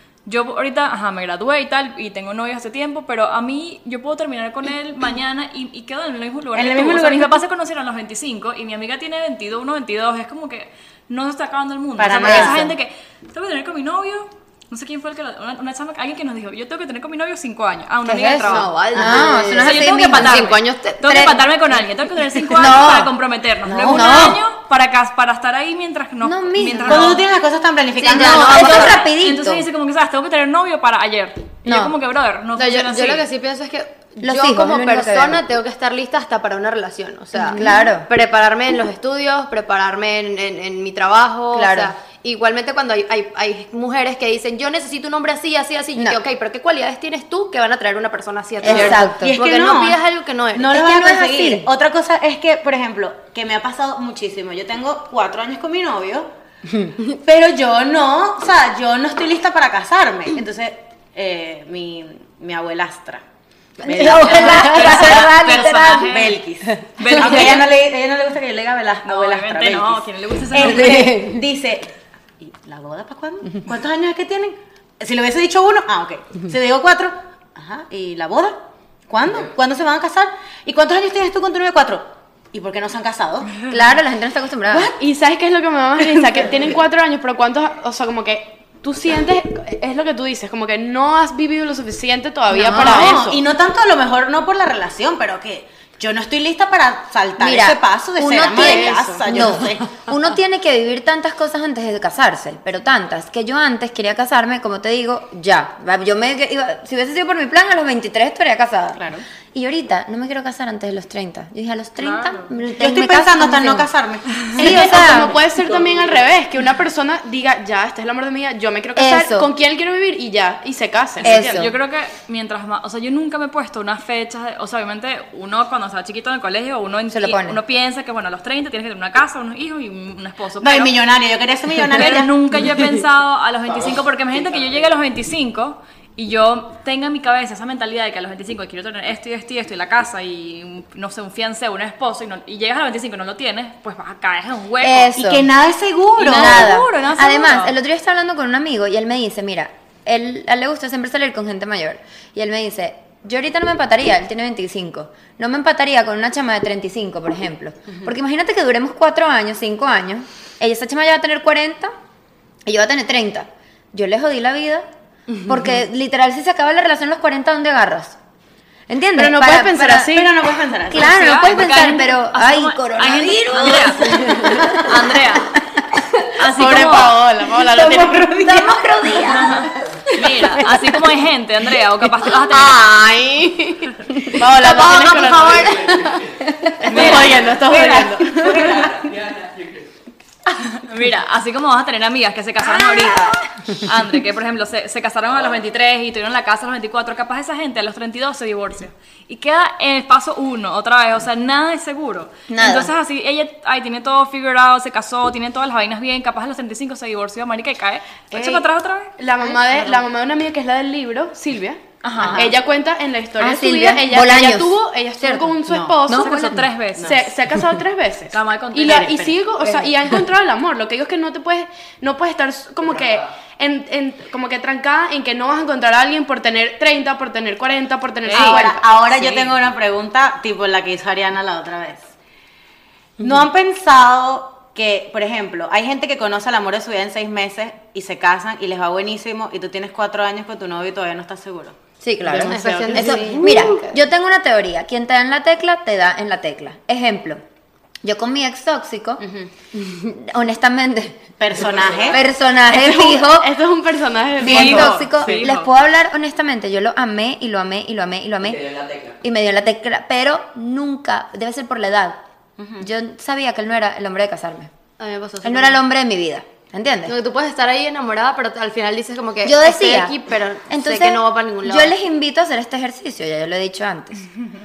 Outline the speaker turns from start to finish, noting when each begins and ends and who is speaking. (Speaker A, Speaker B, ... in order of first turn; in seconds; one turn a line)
Speaker A: 0.2-18.7
Speaker B: 6.5-7.4
Speaker B: 12.0-12.7
Speaker C: 12.2-12.7
Speaker C: 18.0-21.4
Speaker D: 18.5-21.0
Speaker A: 19.5-27.2
Speaker C: 22.5-23.1
Speaker B: 23.7-24.3
Speaker C: 23.8-24.4
Speaker C: 26.2-27.2
Speaker B: 26.9-29.0
Speaker D: 28.0-29.0
Speaker C: 28.1-29.6
Speaker A: 28.7-33.2
Speaker C: 31.6-31.9
Speaker D: 32.5-50.8
Speaker C: 34.2-35.4
Speaker C: 37.4-38.1
Speaker C: 41.5-41.9
Speaker C: 48.6-49.4
Speaker B: 48.6-50.0
Speaker B: 50.5-56.3
Speaker C: 50.7-51.7
Speaker C: 56.7-56.9
Speaker B: 57.0-63.2
Speaker B: 63.8-65.4
Speaker C: 63.8-67.6
Speaker A: 64.0-66.4
Speaker B: 66.1-83.7
Speaker A: 67.0-67.7
Speaker A: 69.0-71.2
Speaker C: 70.5-71.4
Speaker C: 83.7-84.9
Speaker E: 84.8-93.4
Speaker C: 92.5-93.2
Speaker B: 92.7-100.0
Speaker C: 97.4-113.9
Speaker E: 98.5-99.2
Speaker B: 109.0-109.2
Speaker A: 112.0-112.5
Speaker B: 112.8-115.0
Speaker C: 114.5-115.4
Speaker E: 114.5-121.7
Speaker C: 119.0-119.5
Speaker C: 121.2-121.7
Speaker A: 121.3-130.9
Speaker C: 127.1-127.6
Speaker B: 130.6-132.8
Speaker A: 131.9-145.1
Speaker F: 133.8-134.8
Speaker C: 144.8-145.5
Speaker B: 145.1-146.7
Speaker A: 146.2-147.8
Speaker C: 146.2-161.9
Speaker C: 162.7-164.9
Speaker C: 165.4-168.2
Speaker C: 168.9-170.2
Speaker E: 169.2-170.3
Speaker B: 170.1-171.1
Speaker C: 170.9-175.2
Speaker A: 170.9-175.6
Speaker A: 176.3-177.2
Speaker E: 176.5-178.4
Speaker C: 177.6-179.8
Speaker B: 178.1-178.8
Speaker A: 179.2-182.8
Speaker D: 182.3-186.2
Speaker E: 184.3-186.2
Speaker F: 185.5-186.5
Speaker C: 186.6-187.1
Speaker E: 186.8-188.9
Speaker A: 186.9-187.2
Speaker B: 186.9-188.8
Speaker F: 187.2-187.6
Speaker F: 188.4-189.9
Speaker A: 190.5-209.1
Speaker C: 192.6-193.8
Speaker C: 202.5-202.9
Speaker E: 209.2-228.8
Speaker A: 212.0-212.4
Speaker B: 212.2-212.5
Speaker C: 213.4-216.7
Speaker B: 215.7-216.0
Speaker A: 216.1-217.2
Speaker B: 217.0-217.2
Speaker A: 218.3-219.1
Speaker B: 218.8-219.3
Speaker A: 228.2-229.5
Speaker B: 228.3-232.1
Speaker B: 233.2-243.3
Speaker C: 242.0-247.4
Speaker D: 242.4-244.0
Speaker E: 243.0-243.6
Speaker C: 248.0-251.2
Speaker B: 249.2-249.5
Speaker B: 251.4-252.2
Speaker F: 251.7-252.2
Speaker C: 252.1-253.6
Speaker E: 252.7-255.4
Speaker C: 254.4-258.6
Speaker A: 254.4-255.7
Speaker B: 254.5-254.9
Speaker F: 258.4-259.2
Speaker C: 259.2-262.2
Speaker B: 262.6-262.9
Speaker C: 262.8-264.7
Speaker D: 265.0-265.8
Speaker C: 265.4-267.1
Speaker D: 267.1-271.9
Speaker C: 269.4-270.2
Speaker C: 270.7-274.3